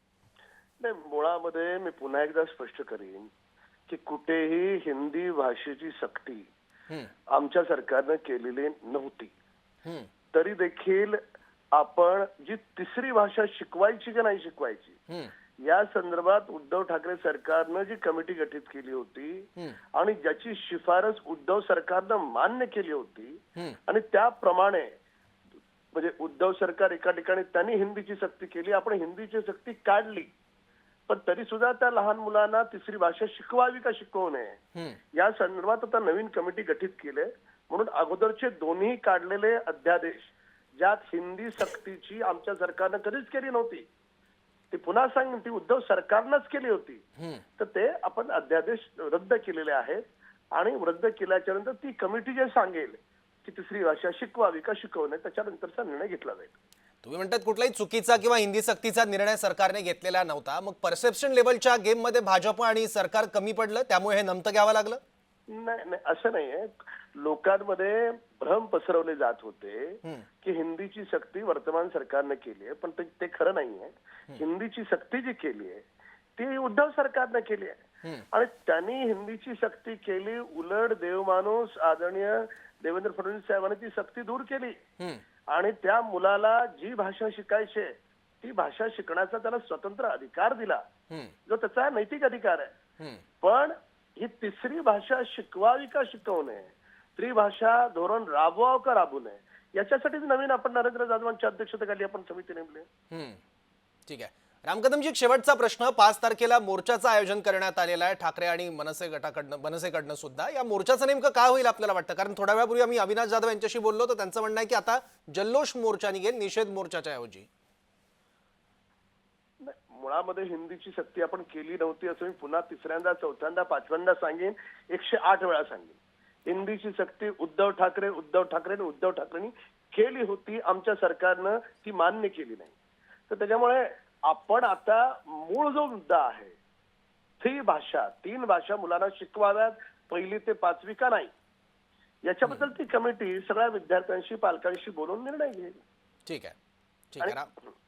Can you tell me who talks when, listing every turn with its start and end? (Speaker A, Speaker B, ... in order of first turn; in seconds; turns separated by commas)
Speaker A: 0.8-3.3, Speaker A: 3.9-6.5, Speaker A: 7.3-9.3, Speaker A: 10.3-11.2, Speaker A: 11.7-15.0, Speaker A: 15.6-24.9, Speaker A: 25.9-30.3, Speaker A: 31.1-34.6, Speaker A: 35.1-43.9, Speaker A: 44.7-47.0, Speaker A: 47.6-56.5, Speaker B: 57.0-65.0, Speaker A: 65.5-75.8, Speaker A: 76.4-77.8, Speaker A: 78.3-84.8, Speaker A: 85.5-90.8, Speaker A: 91.5-92.7, Speaker A: 93.4-102.9, Speaker B: 103.1-103.4, Speaker B: 104.1-117.5, Speaker A: 119.6-126.0, Speaker A: 126.5-132.7, Speaker A: 133.3-136.5, Speaker A: 137.4-141.3, Speaker A: 142.2-145.8, Speaker B: 146.2-146.5, Speaker B: 147.1-147.5